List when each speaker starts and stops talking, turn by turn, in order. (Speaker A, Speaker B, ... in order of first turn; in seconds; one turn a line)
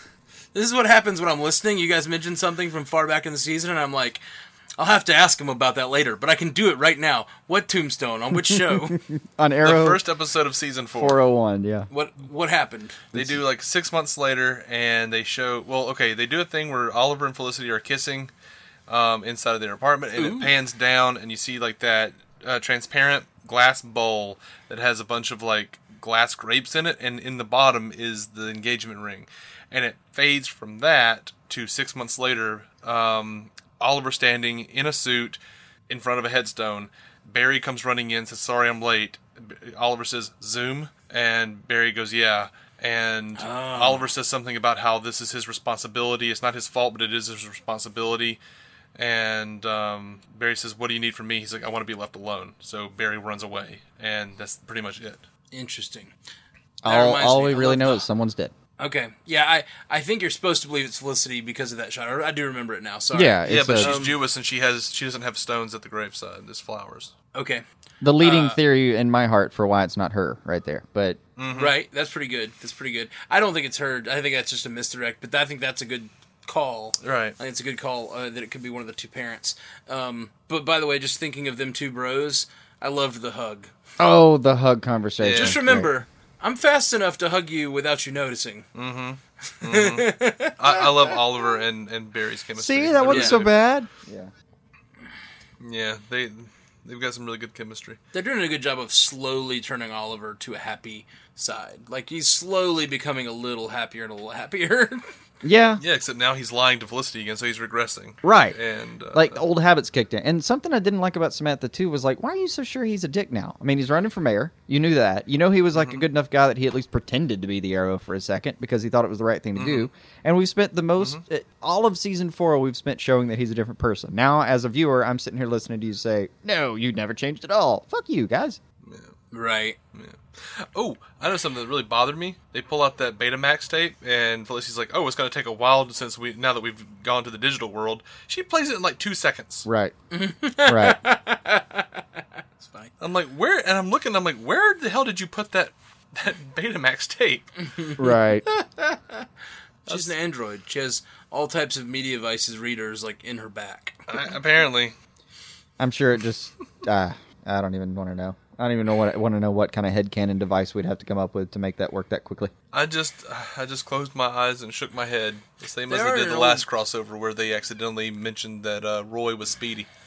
Speaker A: 0.5-4.2
Speaker A: 4.8-9.0
Speaker B: 8.3-10.0
Speaker C: 9.6-11.2
Speaker B: 10.9-11.9
Speaker A: 11.9-13.0
Speaker C: 13.1-18.3
Speaker C: 18.9-48.4
Speaker A: 20.2-20.5
Speaker A: 43.4-44.1
Speaker C: 49.0-55.2
Speaker A: 55.5-56.1
Speaker B: 56.8-58.5
Speaker A: 56.8-58.0
Speaker A: 58.8-64.2
Speaker B: 63.1-64.0
Speaker C: 63.5-67.1
Speaker A: 67.3-67.6
Speaker B: 68.0-71.2
Speaker A: 68.2-68.6
Speaker C: 71.4-71.7
Speaker A: 71.5-83.7
Speaker C: 77.0-77.3
Speaker B: 84.0-85.9
Speaker C: 85.2-85.6
Speaker A: 85.3-88.7
Speaker C: 88.7-93.5
Speaker A: 89.6-91.2
Speaker B: 92.6-94.3
Speaker A: 93.1-93.4
Speaker C: 95.6-98.0
Speaker A: 98.1-105.0
Speaker B: 105.4-105.8
Speaker C: 105.8-109.4
Speaker B: 108.2-108.6
Speaker B: 109.1-128.6
Speaker C: 115.7-116.0
Speaker C: 119.5-119.9
Speaker C: 128.8-129.1
Speaker A: 129.3-129.8
Speaker C: 129.9-139.7
Speaker B: 139.7-139.9
Speaker A: 140.1-142.0
Speaker B: 140.7-141.0
Speaker A: 142.6-142.9
Speaker C: 143.0-147.5
Speaker A: 147.6-149.2
Speaker B: 148.0-148.4
Speaker C: 149.9-150.1
Speaker A: 149.9-154.0
Speaker C: 154.1-154.9
Speaker B: 155.8-162.5
Speaker C: 162.7-169.9
Speaker A: 165.9-166.7